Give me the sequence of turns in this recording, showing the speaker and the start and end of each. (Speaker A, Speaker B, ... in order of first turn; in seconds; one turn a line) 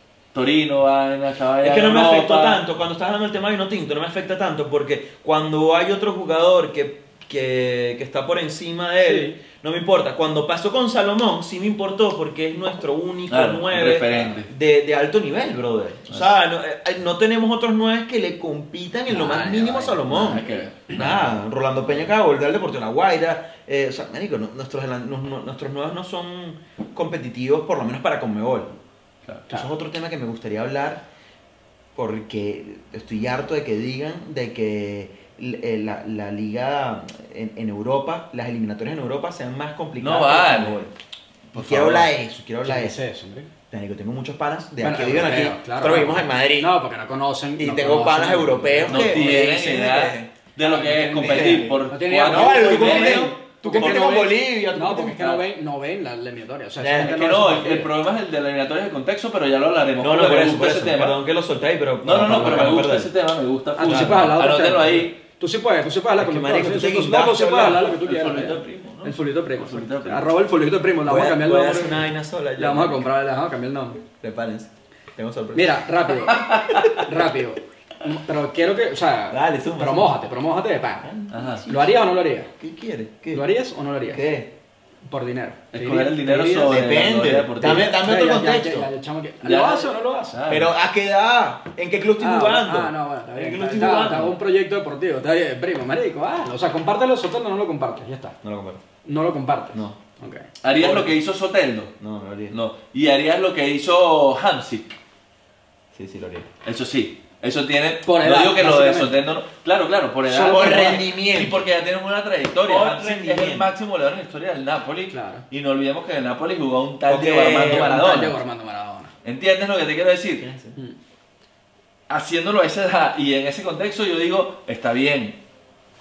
Speaker A: 0.3-2.6
Speaker B: 1.6-28.7
Speaker C: 9.0-9.4
Speaker A: 13.3-14.5
Speaker C: 19.1-20.7
Speaker A: 20.1-21.3
Speaker B: 29.5-31.0
Speaker B: 31.9-40.9
Speaker A: 40.0-40.8
Speaker A: 41.5-42.1
Speaker B: 41.5-43.0
Speaker C: 42.6-43.5
Speaker B: 43.7-46.7
Speaker C: 44.8-49.4
Speaker B: 47.6-55.4
Speaker A: 48.9-54.3
Speaker C: 50.6-57.9
Speaker B: 56.8-57.2
Speaker A: 57.0-61.2
Speaker B: 60.0-63.1
Speaker A: 62.0-65.2
Speaker C: 62.3-62.6
Speaker C: 63.8-74.0
Speaker B: 66.2-67.8
Speaker A: 67.6-70.3
Speaker B: 71.0-73.1
Speaker B: 74.2-75.8
Speaker C: 75.5-81.1
Speaker A: 76.3-76.9
Speaker B: 79.3-80.1
Speaker B: 81.0-81.9
Speaker A: 81.3-81.6
Speaker C: 81.7-82.5
Speaker B: 82.6-83.5
Speaker C: 83.3-84.2
Speaker B: 84.1-84.5
Speaker C: 85.1-86.9
Speaker A: 85.7-88.0
Speaker B: 86.7-88.9
Speaker C: 87.6-90.5
Speaker A: 89.4-90.7
Speaker B: 90.5-94.4
Speaker C: 92.2-98.3
Speaker B: 98.4-98.8
Speaker C: 99.0-100.5
Speaker B: 99.7-100.0
Speaker A: 100.6-101.9
Speaker B: 100.8-101.1
Speaker B: 102.0-102.6
Speaker A: 102.5-105.0
Speaker B: 105.9-106.5
Speaker A: 106.6-118.4
Speaker C: 108.0-109.2
Speaker C: 110.3-111.0
Speaker B: 110.5-111.7
Speaker B: 112.6-113.7
Speaker C: 115.1-115.4
Speaker B: 117.1-117.9
Speaker C: 117.6-119.1
Speaker A: 119.2-120.5
Speaker B: 120.4-120.8
Speaker A: 122.1-125.4